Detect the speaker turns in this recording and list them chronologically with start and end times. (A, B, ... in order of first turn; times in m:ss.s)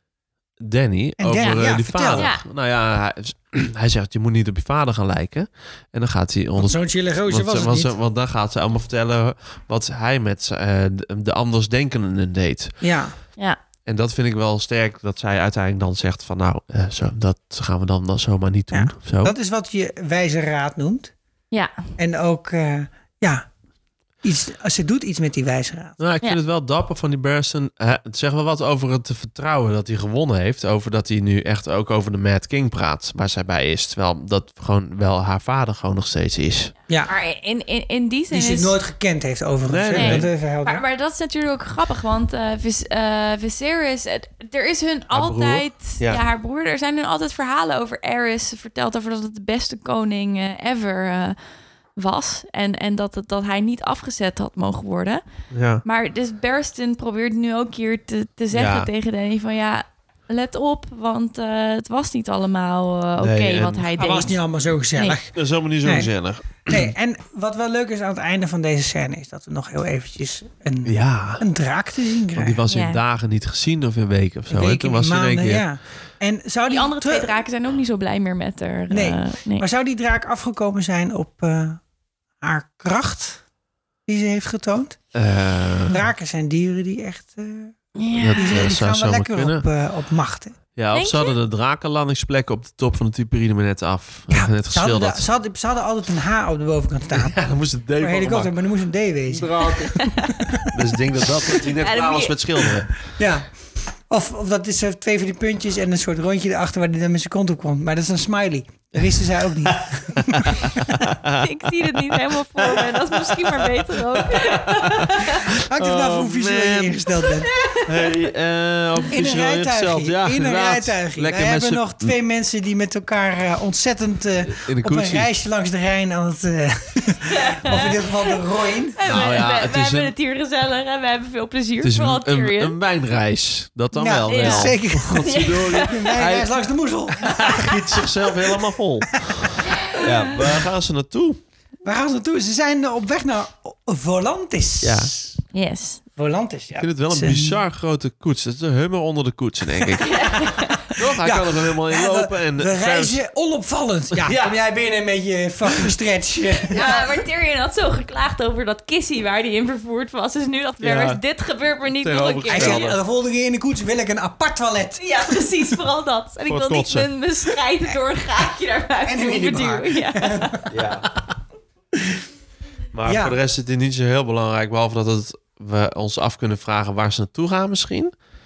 0:00.6-0:12.7 A
0:01.2-0:02.3 B
0:02.1-0:02.4 C
0:06.6-0:07.9 B
0:12.8-0:13.1 B
0:13.8-0:19.3 A
0:18.7-0:21.1 B
0:22.0-0:23.4 B
0:24.2-0:26.0 B
0:26.0-0:36.7 A
0:37.1-0:38.7 C
0:38.3-0:40.8 B
0:39.7-0:40.3 A
0:39.9-0:51.4 C
0:45.1-0:46.2 A
0:52.0-0:55.2 C
0:55.5-0:55.8 A
0:55.8-1:04.4 C
0:58.5-0:58.9 A
1:03.2-1:03.9 A
1:04.0-1:12.6 B
1:05.3-1:06.9 A
1:10.8-1:11.4 A
1:12.3-1:15.6 A
1:12.7-1:13.0 C
1:14.5-1:17.4 B
1:16.7-1:19.6 C
1:18.9-1:21.8 B
1:22.4-1:23.4 B
1:24.1-1:25.0 B
1:25.1-1:26.0 A
1:25.9-1:27.8 B
1:28.0-1:28.6 C
1:28.1-1:29.6 A
1:28.3-1:30.6 B
1:30.8-1:35.2 A
1:30.9-1:31.4 C
1:34.3-1:37.4 B
1:37.1-1:38.5 A
1:38.0-1:40.7 B
1:39.3-1:40.1 A
1:40.0-1:40.3 C
1:40.7-1:42.9 A
1:41.6-1:42.6 C
1:43.0-1:43.5 B
1:44.1-1:51.0 B
1:49.6-1:57.1 A
1:51.4-1:55.4 C
1:55.6-1:57.5 B
1:57.5-1:58.1 C
1:57.8-2:02.1 A
1:59.1-2:09.0 B
2:04.4-2:05.3 A
2:07.4-2:08.1 C
2:09.0-2:12.8 C
2:09.0-2:10.1 A
2:11.8-2:16.5 A
2:13.9-2:18.5 B
2:14.3-2:16.1 C
2:17.2-2:21.4 A
2:19.2-2:19.6 B
2:21.8-2:25.4 B
2:24.8-2:25.1 A
2:25.5-2:26.0 C
2:26.2-2:27.6 B
2:26.8-2:30.4 A
2:30.0-2:37.0 B
2:30.0-2:30.8 C
2:30.9-2:33.2 A
2:34.1-2:34.5 A
2:36.7-2:42.9 C
2:40.8-2:41.2 A
2:42.0-2:43.0 A
2:42.5-2:45.4 B
2:45.0-2:50.6 C
2:46.4-2:47.1 A
2:49.0-2:50.7 B
2:50.7-2:51.0 A
2:52.9-2:58.1 A
2:53.0-2:53.4 B